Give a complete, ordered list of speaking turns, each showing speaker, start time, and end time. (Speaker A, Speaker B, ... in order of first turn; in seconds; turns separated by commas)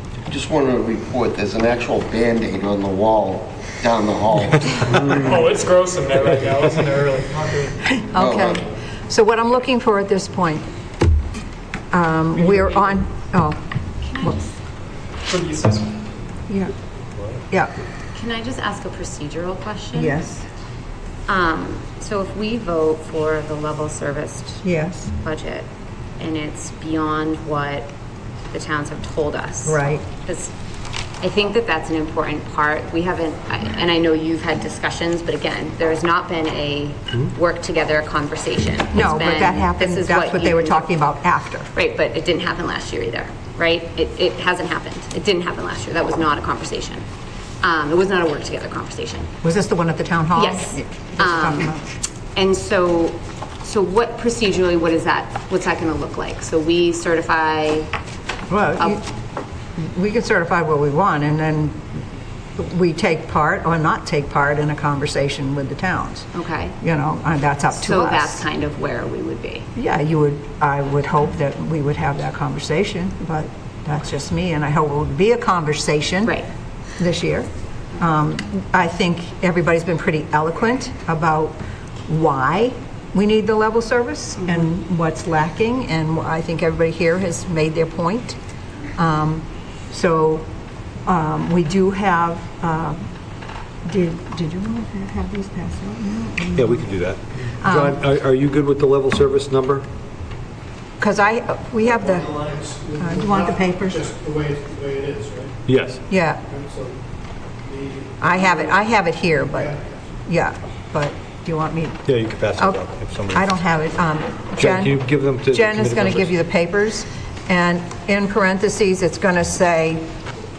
Speaker A: 0.3-5.2, Speaker B: 5.0-7.8, Speaker C: 8.0-10.6, Speaker A: 8.2-8.5, Speaker C: 11.9-13.6, Speaker D: 14.0-14.5, Speaker C: 14.2-14.4, Speaker B: 15.3-15.9, Speaker D: 18.1-20.1, Speaker C: 19.9-20.4, Speaker D: 21.3-24.6, Speaker C: 24.6-25.1, Speaker D: 25.2-27.9, Speaker D: 28.5-30.5, Speaker C: 29.6-30.0, Speaker D: 31.2-40.9, Speaker C: 38.9-41.7, Speaker D: 41.7-47.0, Speaker D: 47.6-49.3, Speaker C: 49.4-51.9, Speaker D: 50.3-51.7, Speaker D: 52.3-57.9, Speaker C: 58.5-59.0, Speaker C: 59.8-61.9, Speaker C: 62.6-66.3, Speaker D: 66.3-66.8, Speaker C: 66.8-68.5, Speaker D: 67.7-69.7, Speaker C: 69.8-76.3, Speaker C: 77.0-77.5, Speaker C: 78.0-88.4, Speaker C: 89.0-90.4, Speaker C: 91.0-93.0, Speaker C: 93.8-96.9, Speaker E: 96.6-99.8, Speaker C: 97.6-98.0, Speaker C: 101.0-102.4, Speaker F: 102.4-105.5, Speaker C: 102.9-104.1, Speaker E: 105.7-106.0, Speaker C: 106.1-106.4, Speaker F: 106.5-106.9, Speaker F: 107.7-108.5, Speaker C: 108.2-112.0, Speaker E: 112.1-113.5, Speaker C: 113.3-120.0, Speaker E: 114.6-116.3